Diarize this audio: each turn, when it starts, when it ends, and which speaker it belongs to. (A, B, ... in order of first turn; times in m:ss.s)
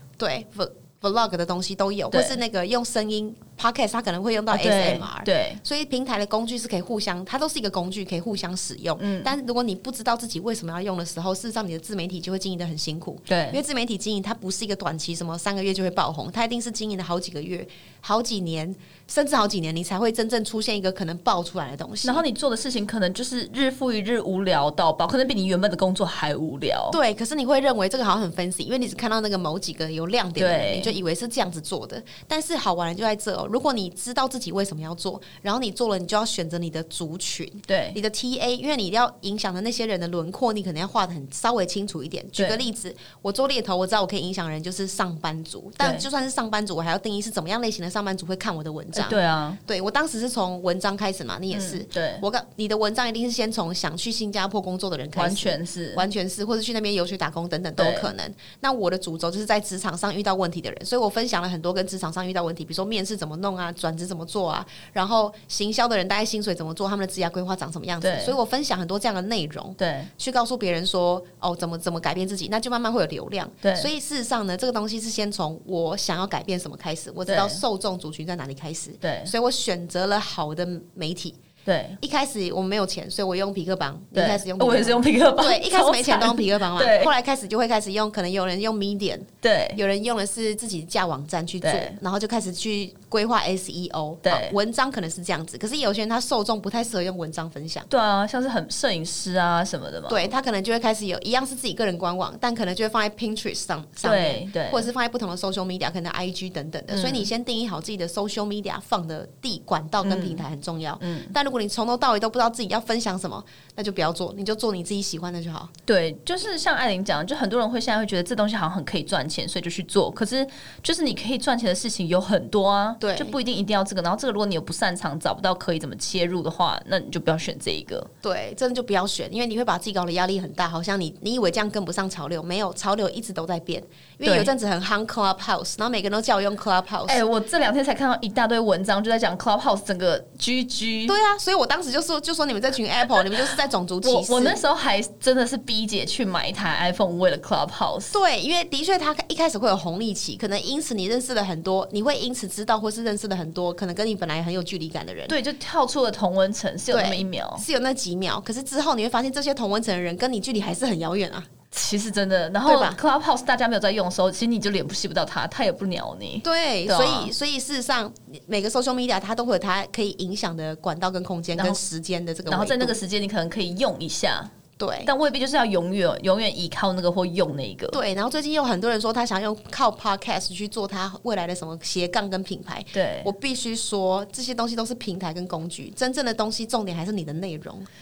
0:00.2-0:22.2 A
0:02.1-0:02.4 B
0:04.5-0:05.6 B
0:09.0-0:09.3 B
0:13.3-0:13.6 B
0:22.0-0:27.0 B
0:26.9-1:21.4 A
0:30.4-0:31.0 B
0:37.7-0:38.0 B
0:42.4-0:42.6 B
0:45.8-0:46.1 B
0:48.9-0:49.6 B
0:51.5-0:52.3 B
0:55.2-0:56.1 B
0:57.8-0:58.1 B
1:08.0-1:08.4 B
1:09.8-1:10.1 B
1:13.6-1:13.9 B
1:17.3-1:17.6 B
1:19.0-1:19.3 B
1:21.7-1:22.0 B
1:22.0-1:37.9 A
1:24.1-1:27.1 B
1:29.4-1:29.8 B
1:31.6-1:32.0 B
1:34.2-1:34.6 B
1:37.9-1:40.3 B
1:40.1-1:55.7 A
1:44.0-1:44.9 B
1:46.9-1:47.3 B
1:50.0-1:50.4 B
1:51.0-1:51.3 B
1:55.9-2:08.1 B
2:03.0-2:03.4 A
2:08.2-2:17.2 A
2:14.2-2:14.5 B
2:17.1-2:21.2 B
2:21.1-2:24.6 A
2:24.0-2:28.2 B
2:28.1-2:35.4 A
2:35.3-2:37.6 B
2:36.9-2:41.5 A
2:41.7-2:47.3 B
2:42.7-2:43.0 A
2:46.4-2:53.0 A
2:51.6-2:51.8 B
2:52.5-2:54.5 B
2:54.8-2:55.1 A
2:55.0-2:58.0 B
2:57.9-3:07.9 A
3:02.9-3:03.3 B